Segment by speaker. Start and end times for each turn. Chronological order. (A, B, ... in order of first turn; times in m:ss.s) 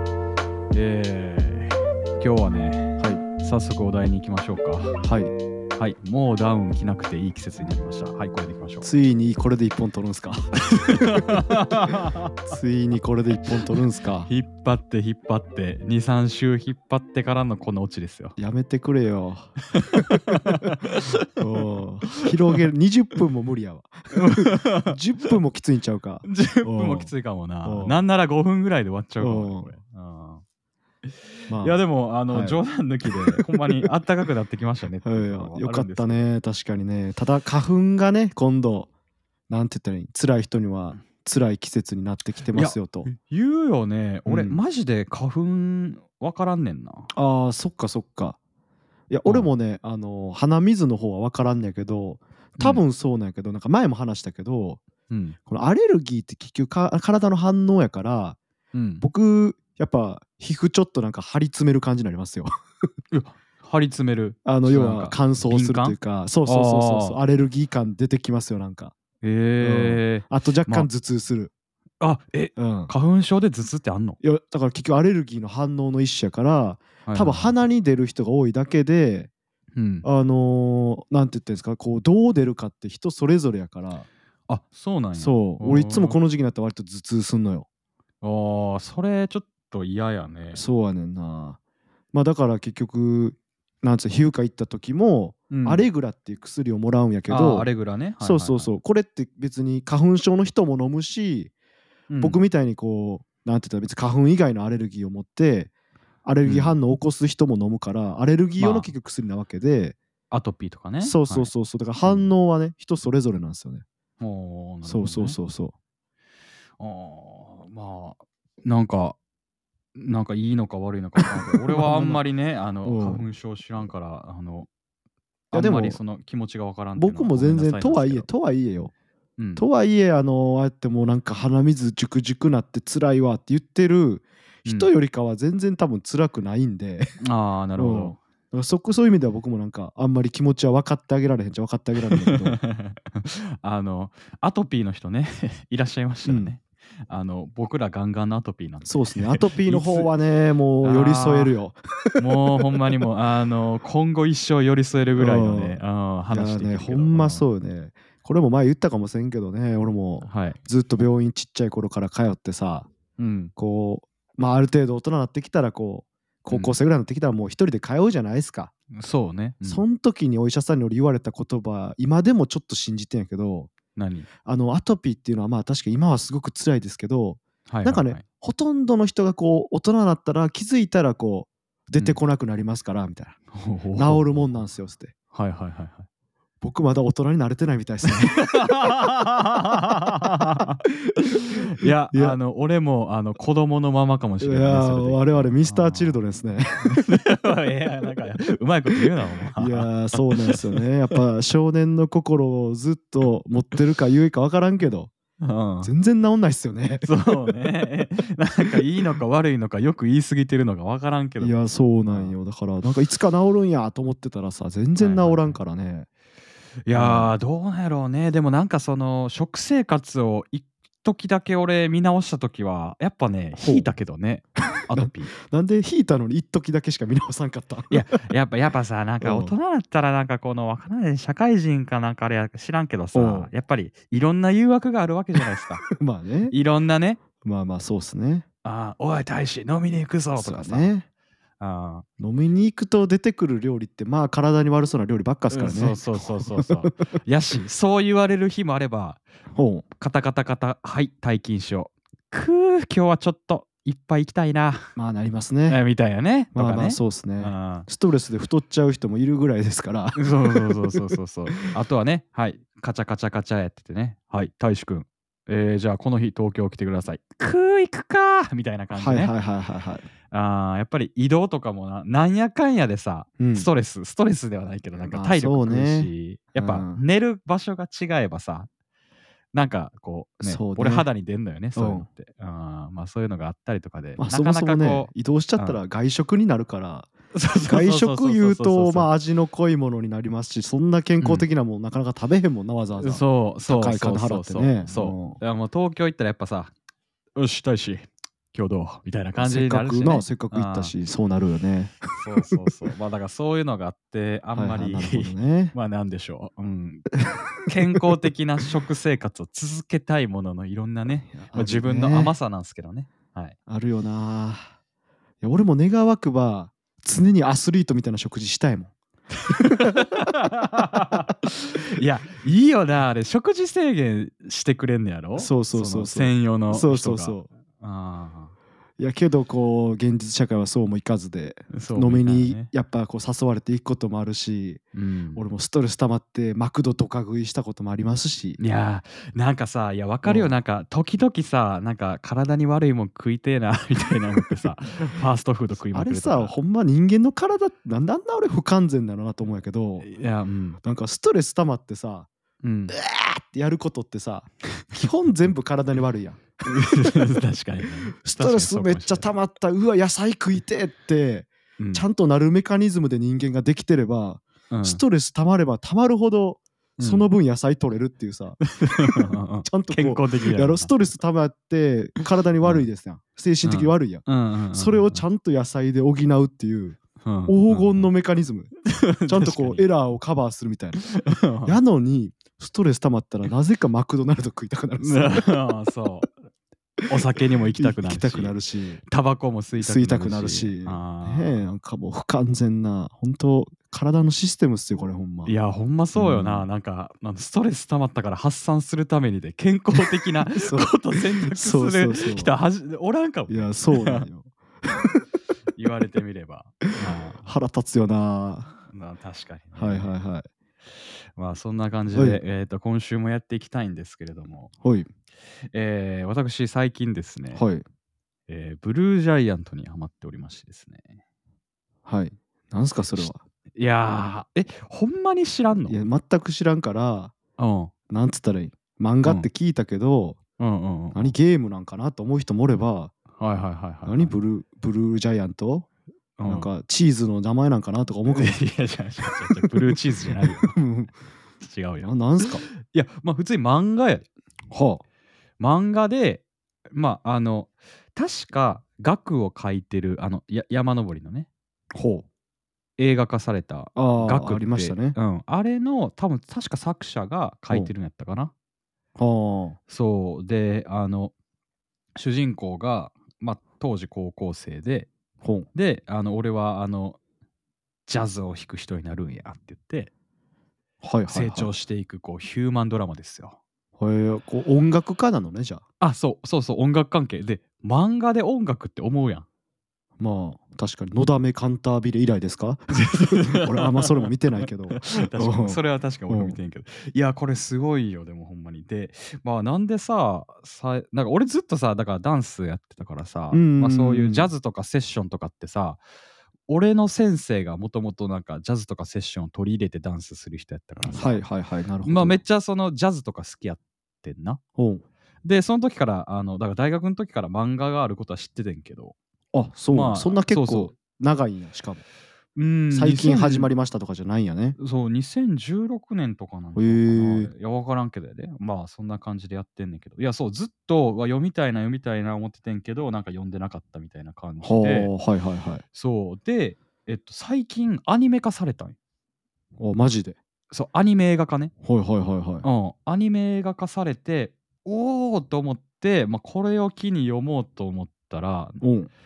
0:00.7-0:04.9 A
0:05.0-0:05.3 B
0:05.8-0:08.9 A
0:08.8-0:11.5 B
0:10.6-0:12.4 A
0:12.5-0:14.3 B
0:14.3-0:18.4 A
0:18.4-0:20.4 B
0:19.7-0:21.3 A
0:21.4-0:27.1 B
0:22.2-0:22.7 A
0:24.1-0:25.3 A
0:26.2-0:30.4 A
0:27.6-0:28.0 B
0:29.2-0:29.7 B
0:31.1-0:36.3 A
0:31.5-0:33.4 B
0:35.0-0:38.9 B
0:39.5-0:43.1 B
0:42.5-0:47.1 A
0:44.3-0:44.6 B
0:47.1-0:48.4 B
0:49.1-0:54.8 B
0:52.6-0:52.8 A
0:55.1-0:55.4 A
0:55.5-0:58.4 B
0:58.7-0:59.0 A
0:59.0-1:02.5 B
1:03.1-1:07.2 A
1:04.4-1:08.9 B
1:09.2-1:10.9 A
1:09.6-1:11.5 B
1:12.0-1:14.2 A
1:12.6-1:12.9 B
1:14.2-1:19.3 B
1:17.1-1:17.5 A
1:19.8-1:20.1 A
1:20.0-1:24.1 B
1:24.5-1:26.2 A
1:25.2-1:27.7 B
1:28.2-1:30.6 A
1:30.5-1:31.6 B
1:32.1-1:41.5 B
1:35.5-1:35.9 A
1:37.3-1:38.7 A
1:42.1-1:42.4 A
1:42.2-1:45.7 B
1:46.2-1:50.0 B
1:46.4-1:46.8 A
1:48.6-1:48.9 A
1:50.3-1:51.5 A
1:51.0-1:53.8 B
1:52.0-1:52.3 A
1:54.2-1:55.4 A
1:54.8-1:55.7 B
1:56.8-1:59.2 A
2:00.0-2:04.7 A
2:01.6-2:02.2 B
2:02.8-2:03.2 B
2:05.5-2:08.3 A
2:05.5-2:06.0 B
2:07.0-2:08.9 B
2:09.4-2:09.6 A
2:09.6-2:17.2 B
2:14.6-2:14.9 A
2:17.2-2:18.2 A
2:17.8-2:22.6 B
2:22.2-2:30.1 A
2:26.3-2:26.6 B
2:28.8-2:32.2 B
2:30.8-2:31.6 A
2:32.2-2:37.4 A
2:35.2-2:35.8 B
2:36.3-2:42.9 B
2:40.2-2:40.6 A
2:43.2-2:43.5 A
2:43.6-2:48.7 B
2:46.5-2:46.8 A
2:48.9-2:49.8 A
2:49.6-2:53.7 B
2:54.0-2:54.3 A
2:54.4-3:03.4 B
2:57.7-2:58.2 A
3:03.5-3:04.6 A
3:04.0-3:05.1 B
3:05.3-3:06.1 A
3:06.6-3:08.5 B
3:08.1-3:10.8 A
3:10.6-3:11.3 B
3:11.5-3:16.2 A
3:14.4-3:17.0 B
3:16.8-3:21.2 A
3:19.6-3:25.1 B
3:25.4-3:25.9 A
3:25.8-3:27.1 B
3:27.0-3:32.4 A
3:31.4-3:36.1 B
3:35.0-3:35.6 A
3:36.9-3:45.3 A
3:36.9-3:37.3 B
3:43.6-3:43.9 B
3:44.9-3:48.0 B
3:47.9-3:55.9 A
3:49.2-3:49.5 B
3:53.1-3:53.5 B
3:55.9-3:56.5 B
3:56.5-3:57.2 A
3:57.4-3:58.4 B
3:58.6-4:00.9 A
4:00.4-4:01.1 B
4:01.6-4:02.0 A
4:02.2-4:06.9 B
4:05.5-4:09.2 A
4:09.5-4:09.8 B
4:10.0-4:14.9 A
4:15.0-4:15.8 B
4:15.7-4:17.9 A
4:16.5-4:21.1 B
4:20.2-4:29.3 A
4:28.9-4:30.1 B
4:30.3-4:38.7 A
4:33.4-4:33.7 B
4:35.0-4:37.0 B
4:39.5-4:45.8 A
4:40.4-4:41.1 B
4:41.8-4:42.1 B
4:44.2-4:47.1 B
4:47.3-4:49.1 A
4:47.6-4:55.4 B
4:51.2-4:51.5 A
4:53.0-4:56.7 A
4:57.4-5:00.9 A
4:59.4-5:02.0 B
5:02.2-5:07.1 A
5:04.6-5:05.8 B
5:07.2-5:08.0 B
5:07.6-5:13.6 A
5:11.4-5:12.3 B
5:13.7-5:14.7 B
5:15.4-5:18.9 B
5:19.5-5:28.5 A
5:19.6-5:20.3 B
5:25.4-5:27.5 B
5:29.0-5:34.8 B
5:31.7-5:32.7 A
5:35.0-5:35.4 A
5:35.4-5:38.6 B
5:38.6-5:46.5 A
5:40.2-5:40.6 B
5:45.9-5:50.1 B
5:50.0-5:50.8 A
5:50.8-5:52.3 B
5:52.6-5:53.0 A
5:52.9-5:57.1 B
5:56.6-5:59.3 A
5:58.2-6:18.7 B
6:01.8-6:02.1 A
6:04.7-6:05.0 A
6:07.0-6:07.3 A
6:08.7-6:11.0 A
6:13.6-6:15.2 A
6:17.2-6:18.1 A
6:18.9-6:19.9 A
6:19.2-6:25.5 B
6:21.2-6:21.8 A
6:25.0-6:26.4 A
6:27.1-6:31.6 A
6:27.8-6:29.0 B
6:29.8-6:35.5 B
6:35.4-6:44.3 A
6:36.2-6:36.7 B
6:40.5-6:42.5 B
6:43.5-6:45.2 B
6:45.8-6:47.4 A
6:47.4-6:48.8 B
6:48.9-6:50.1 A
6:49.8-6:50.5 B
6:51.4-6:54.7 A
6:52.1-6:52.4 B
6:54.8-6:55.1 B
6:55.7-6:57.6 A
6:57.5-6:57.8 B
6:58.5-7:01.2 A
7:02.1-7:03.4 B
7:03.2-7:06.0 A
7:05.9-7:07.3 B
7:07.6-7:07.9 A
7:08.1-7:10.4 B
7:10.6-7:11.4 A
7:11.1-7:13.1 B
7:13.4-7:14.4 A
7:14.0-7:15.9 B
7:16.4-7:16.7 A
7:16.4-7:18.6 B
7:18.3-7:20.8 A
7:19.3-7:21.1 B
7:21.6-7:24.3 A
7:22.0-7:22.6 B
7:24.7-7:25.0 B
7:25.6-7:31.5 A
7:31.9-7:32.3 B
7:33.0-7:38.5 A
7:34.0-7:35.2 B
7:39.2-7:39.8 B
7:39.9-7:41.3 A
7:42.2-7:45.1 A
7:45.4-7:45.7 B
7:45.7-7:47.2 A
7:48.1-7:50.1 A
7:51.0-7:51.7 B
7:51.3-7:53.6 A
7:54.0-7:55.8 B
7:56.0-7:59.5 A
8:00.2-8:06.6 B
8:03.0-8:16.0 A
8:13.5-8:14.5 B
8:16.7-8:21.4 A
8:21.1-8:22.4 B
8:22.0-8:24.6 A
8:24.8-8:25.0 B
8:25.4-8:29.2 A
8:29.5-8:32.0 B
8:29.9-8:30.9 A
8:32.6-8:33.7 A
8:32.9-8:34.8 B
8:34.8-8:45.1 A
8:36.8-8:37.5 B
8:44.6-8:45.8 B
8:45.9-8:49.0 A
8:49.8-8:50.4 B
8:50.7-8:51.7 A
8:51.8-8:52.6 B
8:52.6-8:58.8 A
8:58.8-8:59.1 B